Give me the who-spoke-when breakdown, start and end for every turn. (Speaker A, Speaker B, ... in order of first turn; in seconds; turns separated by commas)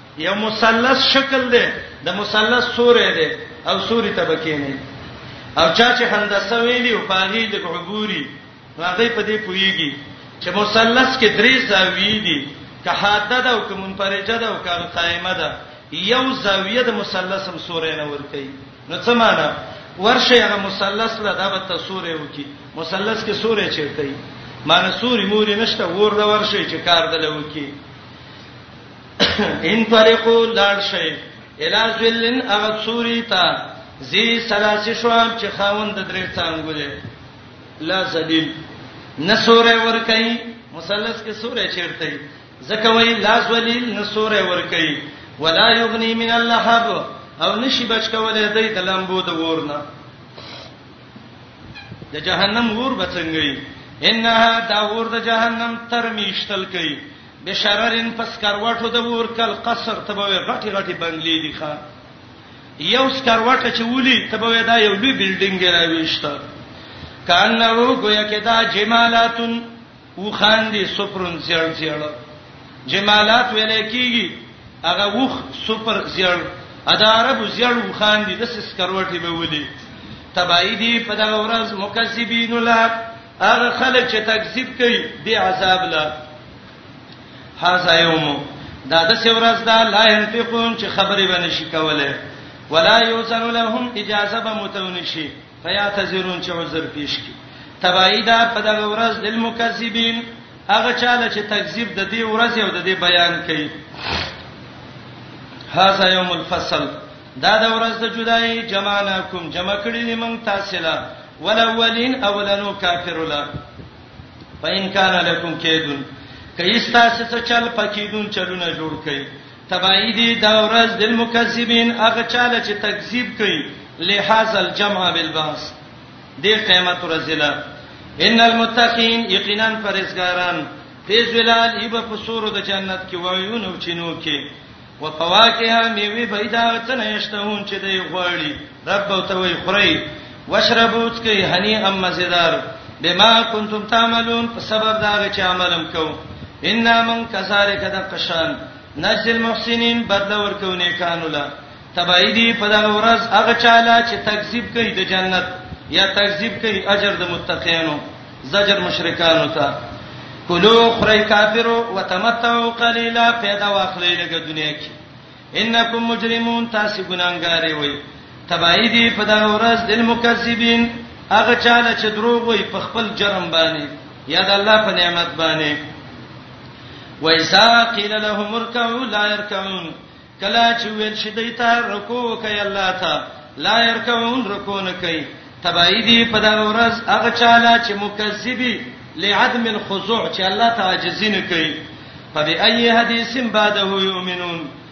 Speaker A: 0.2-4.8, Speaker A: 5.6-27.7, Speaker A: 29.2-37.0, Speaker A: 37.8-38.5, Speaker A: 39.2-49.8, Speaker A: 52.1-61.8, Speaker A: 62.8-66.4, Speaker A: 67.3-69.7, Speaker A: 70.2-72.1, Speaker A: 72.9-79.7, Speaker A: 80.3-86.1, Speaker A: 87.6-92.2, Speaker A: 92.7-103.7, Speaker A: 105.7-113.5, Speaker A: 114.6-125.8, Speaker A: 126.4-127.5, Speaker A: 128.2-134.4, Speaker A: 135.0-159.7, Speaker A: 160.5-165.0, Speaker A: 165.6-175.8, Speaker A: 177.2-191.8, Speaker A: 192.3-194.7